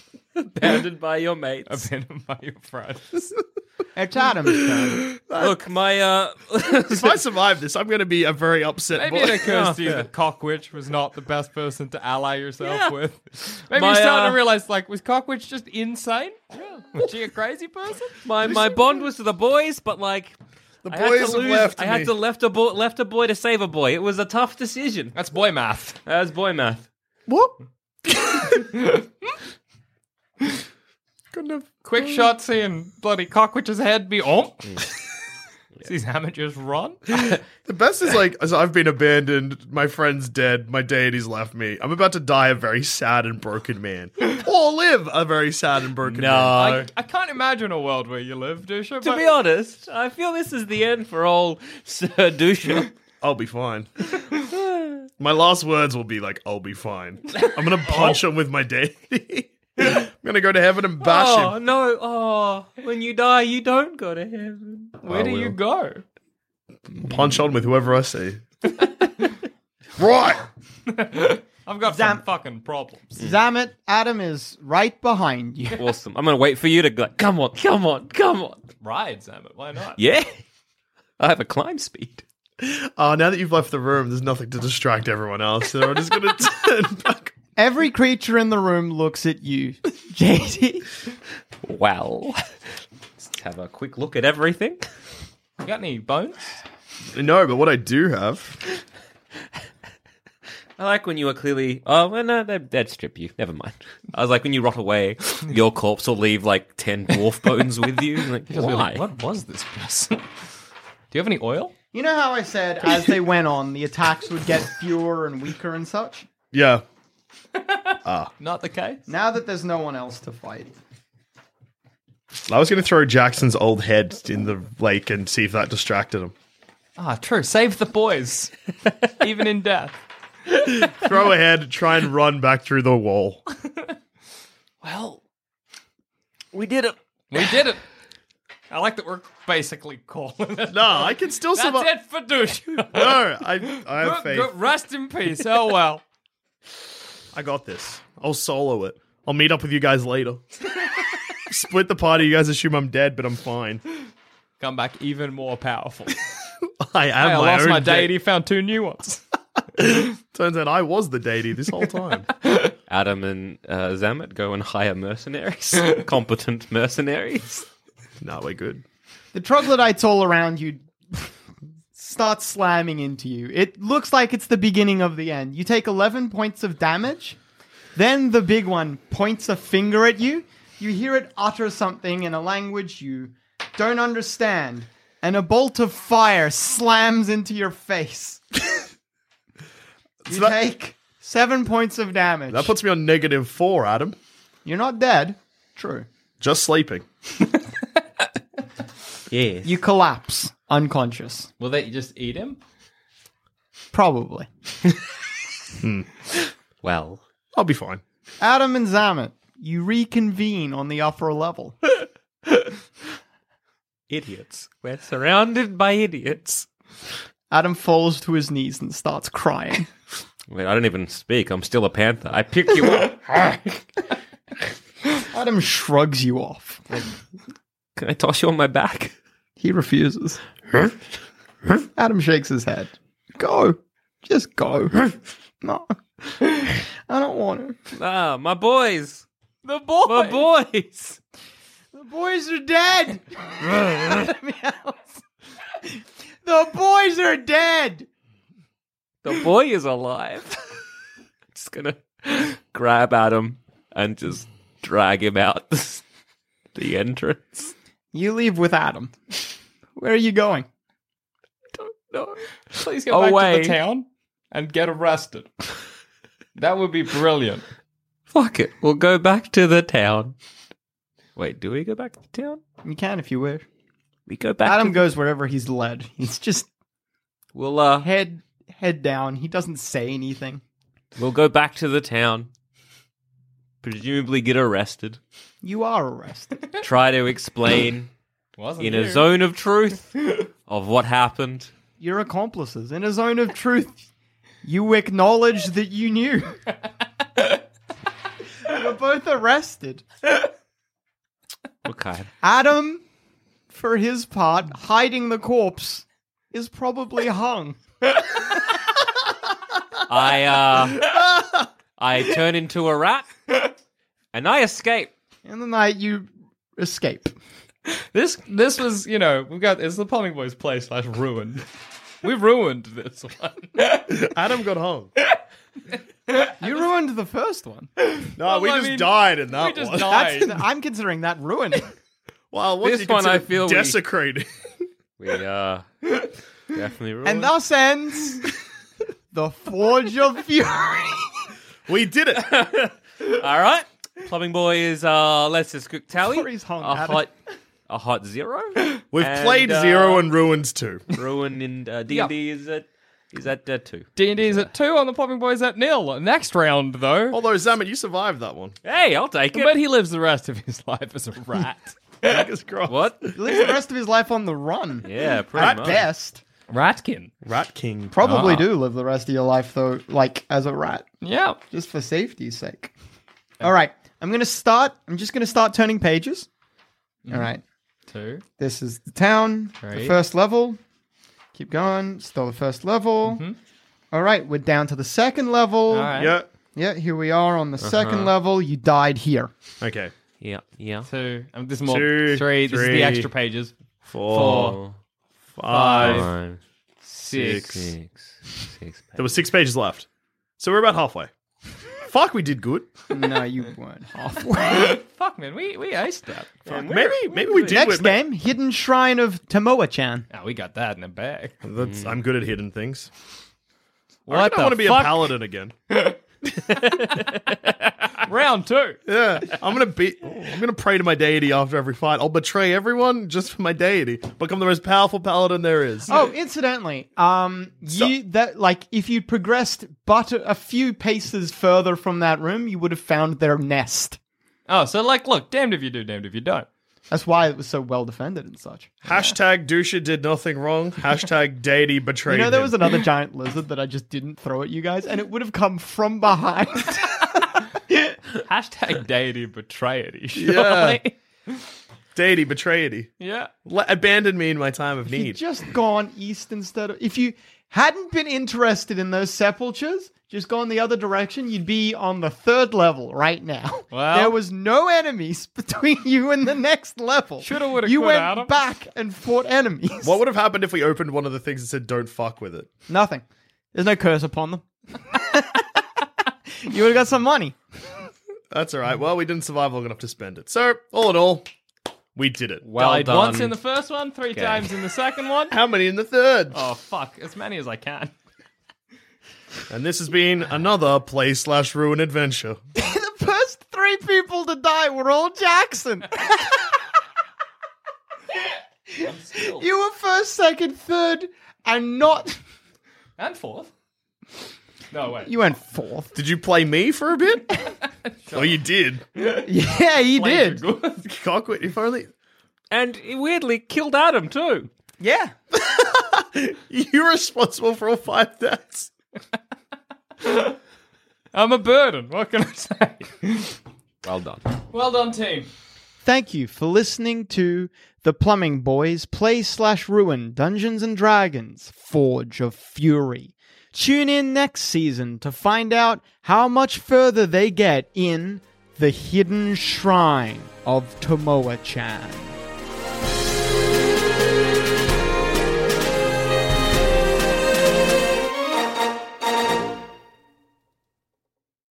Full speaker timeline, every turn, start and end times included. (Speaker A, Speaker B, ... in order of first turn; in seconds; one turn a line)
Speaker A: 0.4-1.9
Speaker B: 1.6-3.2
Speaker C: 3.9-5.1
Speaker D: 5.1-5.6
Speaker A: 5.4-7.2
Speaker D: 6.8-9.5
Speaker B: 8.9-18.2
Speaker A: 9.3-10.1
Speaker A: 12.6-12.9
Speaker A: 13.7-14.4
Speaker A: 18.2-20.4
Speaker D: 18.4-18.9
Speaker D: 20.8-22.1
Speaker A: 20.9-25.2
Speaker B: 25.1-26.0
Speaker A: 26.1-26.9
Speaker D: 27.3-27.5
Speaker D: 28.1-28.6
Speaker D: 31.3-32.3
Speaker B: 31.8-34.9
Speaker B: 35.8-37.4
Speaker D: 37.6-46.8
Speaker A: 46.0-46.9
Speaker B: 46.5-49.4
Speaker A: 49.0-52.9
Speaker D: 53.2-53.9
Speaker A: 54.5-55.1
Speaker D: 55.2-61.5
Speaker A: 57.9-58.1
Speaker A: 61.0-65.5
Speaker B: 65.0-66.0
Speaker D: 67.0-68.4
Speaker D: 70.0-70.5
Speaker B: 70.9-73.2
Speaker C: 71.8-72.2
Speaker C: 73.2-75.8
Speaker A: 75.7-78.7
Speaker B: 78.8-80.0
Speaker A: 80.0-80.3
Speaker A: 81.2-82.2
Speaker D: 82.6-87.3
Speaker C: 87.5-90.8
Speaker A: 91.6-92.4
Speaker A: 93.2-94.8
Speaker B: 95.6-96.6
Speaker D: 97.1-98.6
Speaker A: 100.8-109.0
Speaker B: 108.5-110.2
Speaker B: 111.1-111.7
Speaker C: 111.9-116.3
Speaker D: 116.5-116.8
Speaker B: 117.5-119.0
Speaker D: 118.0-118.3
Speaker C: 119.1-120.7
Speaker D: 122.5-126.3
Speaker B: 127.0-128.5
Speaker B: 129.1-130.0
Speaker D: 130.9-133.4
Speaker B: 134.9-135.2
Speaker A: 136.5-136.9
Speaker B: 137.3-137.8
Speaker B: 138.7-146.0
Speaker D: 140.7-141.9
Speaker D: 142.8-144.6
Speaker D: 147.3-150.4
Speaker D: 151.5-153.8
Speaker B: 154.6-156.2
Speaker D: 156.8-158.2
Speaker B: 157.2-159.2
Speaker D: 159.8-162.3
Speaker A: 162.9-167.7
Speaker D: 168.2-168.8
Speaker C: 169.3-171.3
Speaker C: 171.9-177.4
Speaker C: 177.9-188.4
Speaker D: 190.2-190.6
Speaker C: 190.3-192.8
Speaker D: 192.5-194.2
Speaker C: 194.6-196.1
Speaker D: 196.4-197.0
Speaker A: 199.3-199.8
Speaker C: 199.6-201.5
Speaker B: 201.6-202.6
Speaker C: 203.9-204.5
Speaker D: 205.8-206.1
Speaker A: 206.8-207.2
Speaker D: 207.5-208.0
Speaker C: 208.4-211.8
Speaker A: 214.1-216.7
Speaker C: 217.5-219.9
Speaker A: 220.5-223.8
Speaker C: 225.3-227.0
Speaker A: 227.9-229.1
Speaker C: 229.6-230.4
Speaker C: 231.9-237.8
Speaker A: 237.9-239.2
Speaker B: 239.6-240.5
Speaker A: 240.0-241.2
Speaker C: 241.9-245.2
Speaker C: 245.8-248.1
Speaker A: 249.2-250.7
Speaker A: 251.5-256.0
Speaker A: 256.7-257.7
Speaker C: 258.1-259.4
Speaker C: 259.9-260.7
Speaker A: 261.8-263.8
Speaker B: 262.7-265.5
Speaker B: 266.6-267.6
Speaker A: 268.3-270.3
Speaker A: 271.4-272.6
Speaker C: 272.8-273.6
Speaker A: 274.3-275.1
Speaker C: 274.6-276.7
Speaker A: 277.5-278.1
Speaker C: 278.0-280.6
Speaker A: 281.2-282.5
Speaker A: 283.8-285.2
Speaker C: 285.6-286.6
Speaker A: 286.8-288.1
Speaker B: 288.6-289.3
Speaker A: 288.8-291.7
Speaker C: 292.0-294.1
Speaker C: 294.6-296.6
Speaker C: 298.6-300.0
Speaker A: 301.8-302.3
Speaker C: 302.4-303.0
Speaker C: 303.7-307.8
Speaker A: 310.1-311.0
Speaker A: 312.0-313.3
Speaker A: 314.3-315.1
Speaker C: 315.4-317.3
Speaker B: 317.9-321.6
Speaker B: 322.2-324.3
Speaker D: 324.1-325.1
Speaker B: 325.9-326.7
Speaker C: 326.6-327.9
Speaker B: 328.1-330.6
Speaker D: 328.4-330.1
Speaker C: 330.1-331.9
Speaker D: 332.5-334.5
Speaker A: 332.8-334.0
Speaker A: 335.2-335.9
Speaker A: 336.7-337.5
Speaker C: 337.2-338.5
Speaker C: 339.3-341.4
Speaker D: 341.9-342.5
Speaker A: 342.4-347.3
Speaker C: 346.1-347.2
Speaker A: 347.9-350.3
Speaker D: 349.1-351.1
Speaker A: 351.1-354.6
Speaker B: 352.1-352.3
Speaker B: 354.1-357.4
Speaker D: 357.3-358.8
Speaker A: 358.8-359.8
Speaker B: 359.5-362.5
Speaker D: 362.2-363.4
Speaker A: 362.9-363.2
Speaker C: 363.4-366.4
Speaker A: 365.0-366.0
Speaker D: 365.6-366.0
Speaker B: 366.7-367.3
Speaker D: 367.4-368.2
Speaker C: 368.1-371.1
Speaker B: 368.2-368.7
Speaker B: 371.2-371.6
Speaker C: 371.7-372.9
Speaker C: 373.6-376.5
Speaker B: 377.2-377.5
Speaker C: 377.3-377.6
Speaker B: 378.1-378.4
Speaker C: 378.6-380.8
Speaker B: 379.8-380.1
Speaker C: 381.5-383.4
Speaker B: 383.2-383.6
Speaker C: 384.1-389.5
Speaker B: 385.9-386.4
Speaker D: 386.1-386.5
Speaker A: 387.8-388.3
Speaker D: 389.8-390.1
Speaker A: 390.4-391.1
Speaker B: 391.1-393.7
Speaker D: 391.9-393.3
Speaker D: 394.0-394.8
Speaker B: 394.2-394.8
Speaker A: 394.4-394.9
Speaker D: 395.6-396.3
Speaker B: 395.7-396.3
Speaker A: 395.9-396.6
Speaker B: 397.0-397.9
Speaker D: 397.3-397.7
Speaker A: 397.4-399.2
Speaker D: 399.2-400.1
Speaker D: 400.6-401.3
Speaker D: 402.1-402.9
Speaker C: 403.1-405.0
Speaker B: 404.6-406.7
Speaker A: 406.6-407.8
Speaker D: 406.8-408.2
Speaker C: 407.6-410.3
Speaker B: 410.3-411.6
Speaker D: 411.6-413.1
Speaker B: 414.3-415.3
Speaker D: 414.3-415.7
Speaker B: 415.9-416.2
Speaker A: 416.8-417.6
Speaker B: 418.2-419.0
Speaker D: 419.1-426.1
Speaker C: 426.1-434.2
Speaker B: 434.7-436.7
Speaker C: 437.1-439.3
Speaker D: 439.0-442.8
Speaker C: 442.2-447.4
Speaker B: 448.4-451.2
Speaker D: 450.3-451.0
Speaker D: 452.1-453.1
Speaker B: 453.2-453.5
Speaker D: 453.6-455.4
Speaker C: 455.1-470.2
Speaker B: 463.9-464.4
Speaker B: 467.4-468.5
Speaker D: 470.0-472.7
Speaker C: 472.9-475.8
Speaker C: 476.5-477.6
Speaker D: 478.5-481.5
Speaker D: 482.1-482.6
Speaker B: 482.6-485.6
Speaker A: 482.7-483.6
Speaker A: 484.3-484.7
Speaker D: 485.5-486.6
Speaker B: 486.5-488.1
Speaker D: 489.7-492.6
Speaker C: 492.7-496.6
Speaker B: 499.0-499.6
Speaker C: 499.0-502.4
Speaker B: 503.2-503.7
Speaker B: 504.9-505.3
Speaker C: 505.2-506.1
Speaker D: 506.1-507.5
Speaker B: 507.8-509.5
Speaker D: 508.3-509.0
Speaker C: 509.4-510.6
Speaker B: 510.1-511.1
Speaker D: 511.0-512.1
Speaker A: 512.7-514.7
Speaker C: 515.0-515.3
Speaker D: 515.5-518.9
Speaker B: 520.2-520.6
Speaker B: 521.3-523.6
Speaker A: 524.0-524.4
Speaker B: 524.7-525.5
Speaker C: 526.0-542.4